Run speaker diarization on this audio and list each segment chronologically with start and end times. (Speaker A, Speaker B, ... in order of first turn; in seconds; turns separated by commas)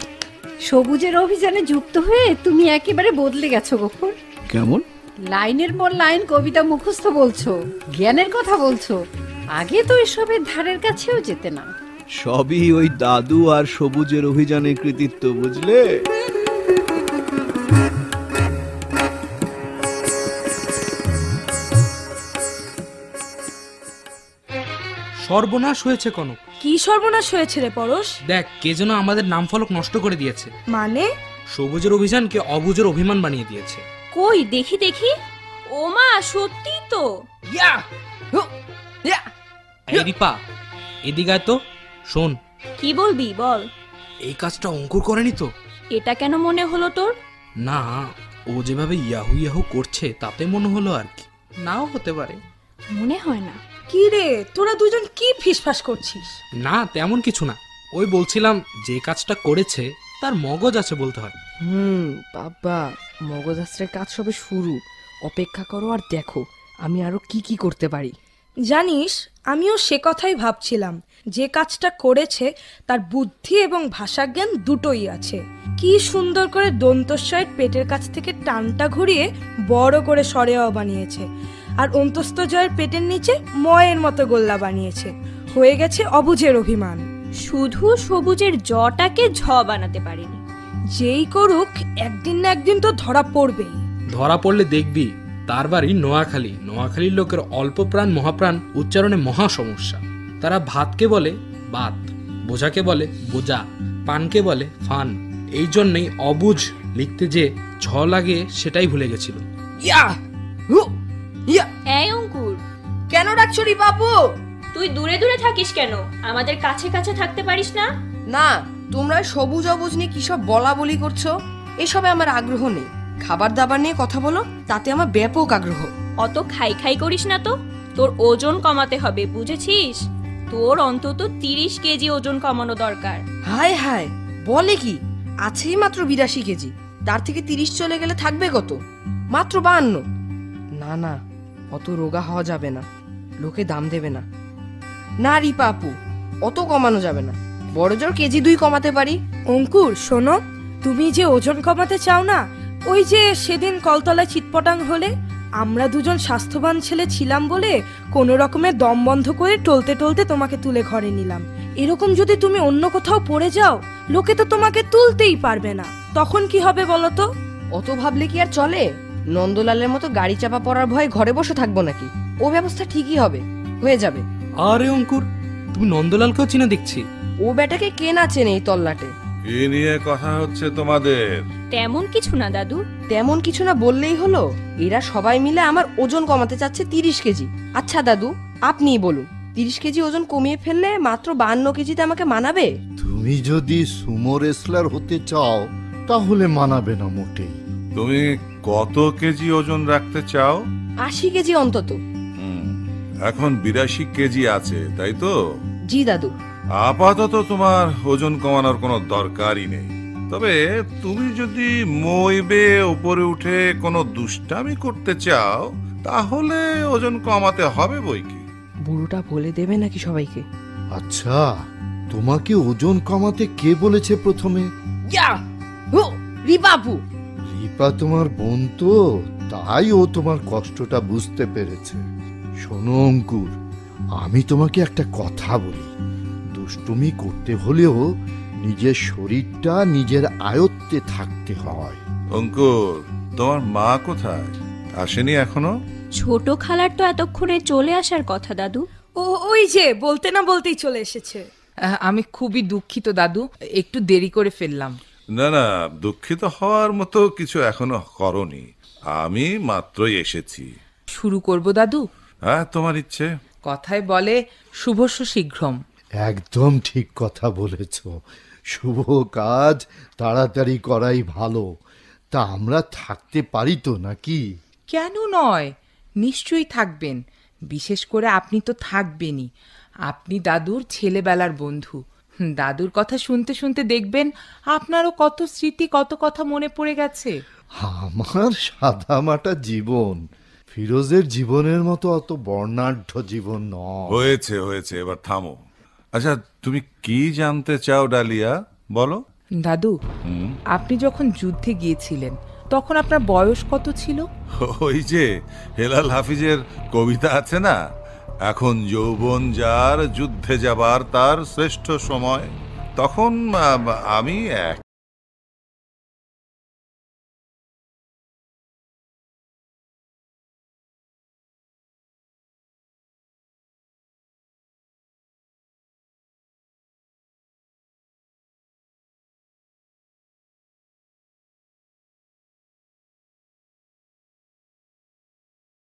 Speaker A: 0.7-4.2, Speaker B: 4.5-4.8, Speaker A: 5.3-9.0, Speaker A: 9.6-11.7, Speaker B: 12.2-15.8, Speaker C: 25.2-26.4, Speaker D: 26.6-28.1, Speaker C: 28.3-30.5, Speaker D: 30.7-31.1, Speaker C: 31.5-33.8, Speaker E: 34.1-35.1, Speaker E: 35.7-37.0, Speaker C: 39.9-40.4, Speaker C: 41.1-41.6, Speaker C: 42.1-42.4, Speaker E: 42.8-43.6, Speaker C: 44.2-45.5, Speaker E: 45.9-47.1, Speaker C: 47.6-52.3, Speaker E: 52.9-53.6, Speaker D: 53.9-56.4, Speaker C: 56.6-61.3, Speaker F: 61.6-68.1, Speaker D: 68.7-81.2, Speaker D: 81.8-87.0, Speaker E: 87.4-90.3, Speaker D: 91.0-93.8, Speaker C: 94.1-109.4, Speaker F: 109.8-110.2, Speaker E: 111.9-112.6, Speaker F: 113.1-114.2, Speaker E: 114.7-117.9, Speaker F: 118.3-125.9, Speaker E: 126.2-130.0, Speaker E: 130.5-133.2, Speaker F: 133.5-138.8, Speaker F: 139.3-140.0, Speaker F: 140.8-141.2, Speaker F: 141.7-142.8, Speaker F: 143.4-144.2, Speaker F: 145.2-145.9, Speaker F: 146.4-149.2, Speaker D: 149.5-155.1, Speaker D: 155.6-167.2, Speaker F: 167.7-174.2, Speaker C: 174.6-177.0, Speaker F: 177.4-179.1, Speaker G: 179.5-181.4, Speaker E: 181.7-182.8, Speaker F: 183.1-192.7, Speaker H: 193.0-197.6, Speaker G: 197.9-200.6, Speaker F: 201.0-202.0, Speaker G: 202.4-205.3, Speaker F: 205.9-206.3, Speaker G: 206.8-218.4, Speaker F: 218.9-220.4, Speaker H: 220.9-221.5, Speaker H: 222.1-224.7, Speaker F: 225.9-227.0, Speaker H: 227.5-228.9, Speaker H: 229.5-232.0, Speaker H: 232.6-233.5, Speaker H: 234.2-235.9, Speaker H: 236.6-238.0, Speaker H: 238.6-242.0, Speaker G: 242.3-245.7, Speaker E: 246.2-248.8, Speaker D: 249.2-251.4, Speaker I: 252.0-254.9, Speaker G: 255.4-260.7, Speaker I: 261.1-262.0, Speaker G: 262.5-263.3, Speaker I: 263.7-265.8, Speaker H: 266.2-268.1, Speaker H: 268.7-271.7, Speaker H: 272.3-274.4, Speaker I: 274.9-279.5, Speaker I: 280.1-287.4, Speaker H: 287.8-290.2, Speaker H: 290.7-294.3, Speaker G: 294.1-295.6, Speaker G: 296.1-299.2, Speaker I: 299.6-299.9, Speaker G: 300.3-300.5, Speaker I: 300.7-304.2, Speaker G: 304.6-307.8, Speaker G: 308.4-314.8